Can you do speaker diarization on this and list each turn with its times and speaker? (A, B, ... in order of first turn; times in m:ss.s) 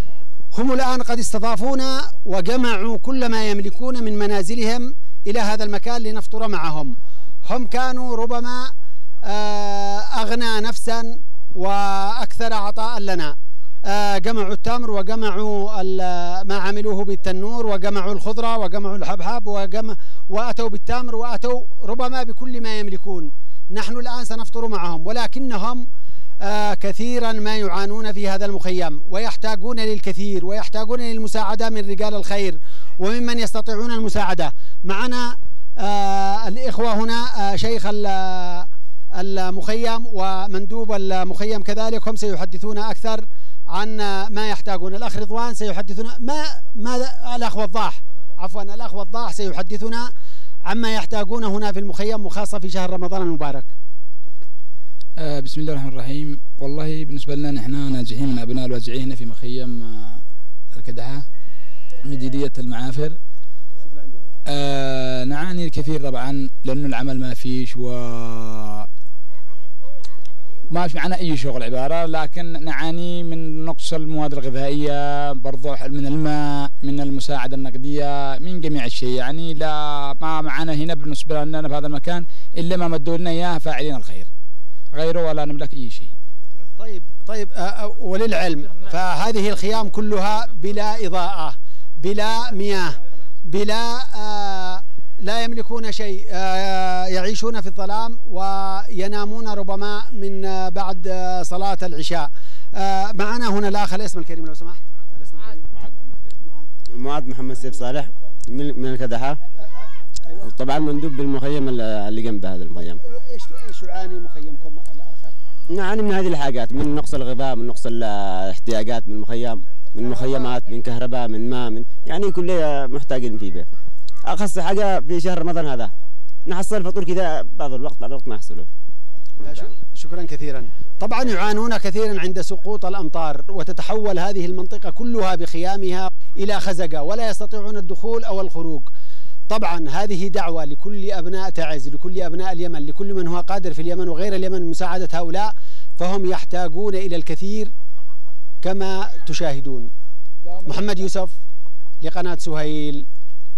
0:00.5-0:07.0 A
0:07.5-0:08.7 A
0:09.2-0:13.3 A
0:13.9-0:25.9 A
0:26.4-0:50.1 A
0:50.6-0:53.7 A
0:55.2-1:00.2 B
1:00.7-1:01.2 B
1:02.0-1:03.2 B
1:03.8-1:04.2 A
1:04.5-1:08.9 B
1:10.7-1:24.3 B
1:24.9-1:26.1 B
1:26.8-1:45.8 A
1:46.9-1:49.4 C
1:50.4-1:53.0 C
1:52.9-1:55.4 A
1:55.7-2:03.7 C
2:04.3-2:05.9 C
2:06.5-2:08.7 C
2:09.4-2:18.9 A
2:19.5-2:27.7 A
2:28.6-2:29.9 A
2:30.5-2:31.0 B
2:30.6-2:31.4 A
2:32.0-2:33.1 A